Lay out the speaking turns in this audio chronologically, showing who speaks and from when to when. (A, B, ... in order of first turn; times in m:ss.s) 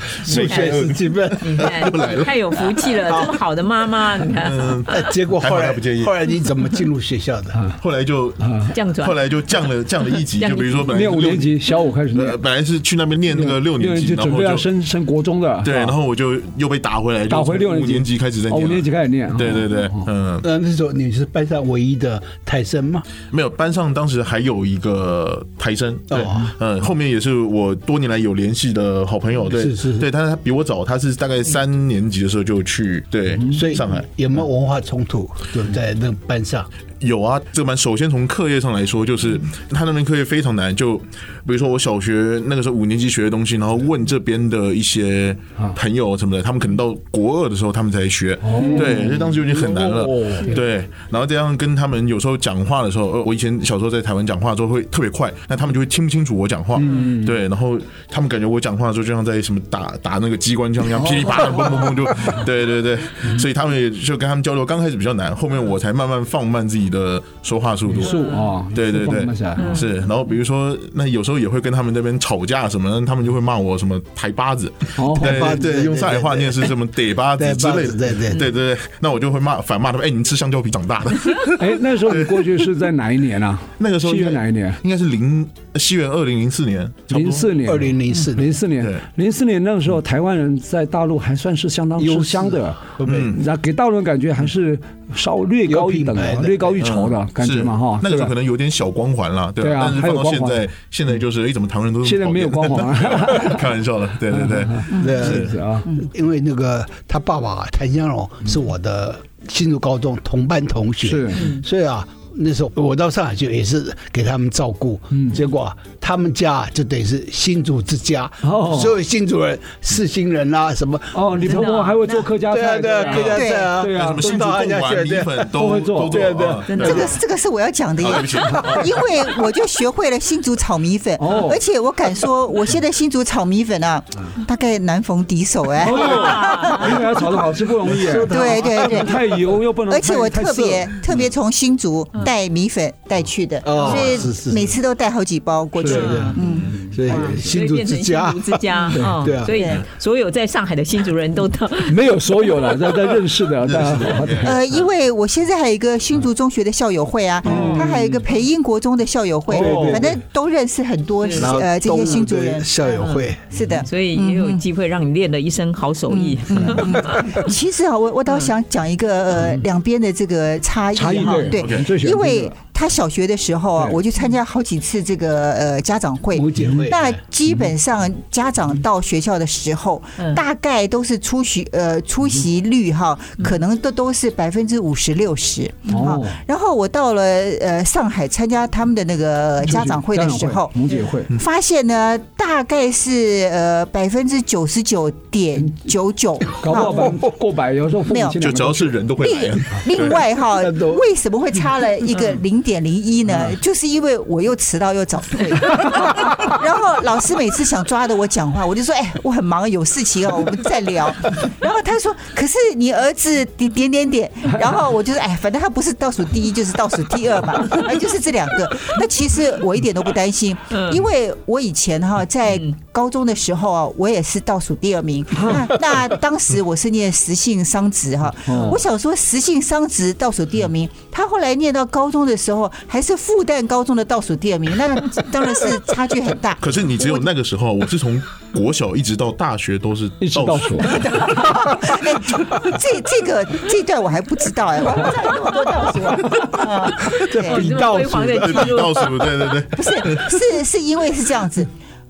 0:00.2-0:02.0 A
0:00.3-0:02.6 B
0:00.3-0:00.8 C
0:01.4-0:05.0 C
0:03.1-0:03.4 A
0:04.4-0:06.1 B
0:04.9-0:07.6 A
0:07.8-0:11.5 B
0:08.4-0:08.7 D
0:08.7-0:09.2 C
0:10.2-0:10.9 C
0:10.9-0:12.4 D
0:12.1-0:14.6 B
0:13.3-0:15.9 D
0:15.6-0:20.4 B
0:17.3-0:20.0 D
0:20.4-0:23.0 A
0:23.3-0:34.1 B
0:26.1-0:26.5 A
0:29.5-0:30.0 A
0:33.5-0:36.7 A
0:37.0-1:08.2 B
0:48.4-0:49.2 D
0:48.6-0:50.5 A
0:56.8-0:57.3 D
1:01.0-1:01.8 D
1:07.9-1:09.7 D
1:08.0-1:08.5 C
1:08.7-1:22.6 B
1:09.6-1:09.9 C
1:15.0-1:15.6 D
1:15.2-1:16.7 A
1:17.4-1:18.4 A
1:21.6-1:24.8 D
1:23.8-1:27.5 B
1:27.1-1:38.3 D
1:27.7-1:28.5 A
1:32.0-1:33.3 A
1:33.0-1:33.4 B
1:35.6-1:36.8 A
1:36.8-1:45.5 B
1:39.6-1:40.7 D
1:42.0-1:43.6 D
1:44.3-1:45.8 D
1:44.9-1:45.3 E
1:44.9-2:01.7 A
1:51.0-1:51.4 D
1:51.3-1:51.6 C
1:55.1-1:55.4 D
1:58.4-1:58.9 D
2:01.1-2:04.2 D
2:01.4-2:02.2 C
2:02.5-2:05.5 A
2:02.9-2:03.2 C
2:03.3-2:03.8 E
2:03.9-2:07.0 B
2:05.5-2:06.3 D
2:06.1-2:07.0 A
2:06.7-2:07.2 C
2:06.8-2:16.9 E
2:08.0-2:09.0 B
2:11.2-2:11.6 D
2:15.8-2:21.0 D
2:15.9-2:17.0 C
2:17.8-2:19.0 A
2:18.3-2:19.2 E
2:19.9-2:26.7 E
2:23.6-2:24.7 A
2:23.8-2:24.2 C
2:25.8-2:27.5 D
2:25.9-2:26.4 C
2:25.9-2:29.5 A
2:27.0-2:32.0 C
2:28.9-2:29.3 D
2:29.5-2:29.8 E
2:31.9-2:34.6 D
2:33.6-2:34.6 B
2:34.4-2:42.6 E
2:37.4-2:37.9 D
2:39.5-2:40.0 D
2:39.5-2:40.1 A
2:41.2-2:41.5 C
2:41.3-2:43.5 A
2:43.0-2:43.2 C
2:43.5-2:44.6 E
2:43.8-2:47.4 C
2:46.1-3:17.2 E
2:49.4-2:49.6 D
2:50.9-2:52.5 D
2:51.6-2:51.9 B
2:56.3-2:57.2 A
2:56.6-2:56.9 D
3:05.9-3:06.4 D
3:09.6-3:11.3 D
3:16.6-3:19.0 D
3:18.0-3:18.4 E
3:18.4-3:20.2 B
3:19.2-3:57.2 E
3:20.6-3:21.0 A
3:40.7-3:41.0 C
3:48.5-3:48.8 D
3:56.6-4:01.4 B
4:00.2-4:00.9 D
4:00.8-4:07.7 E
4:07.1-4:08.6 A
4:07.1-4:09.2 C
4:08.4-4:10.5 B
4:09.7-4:11.7 E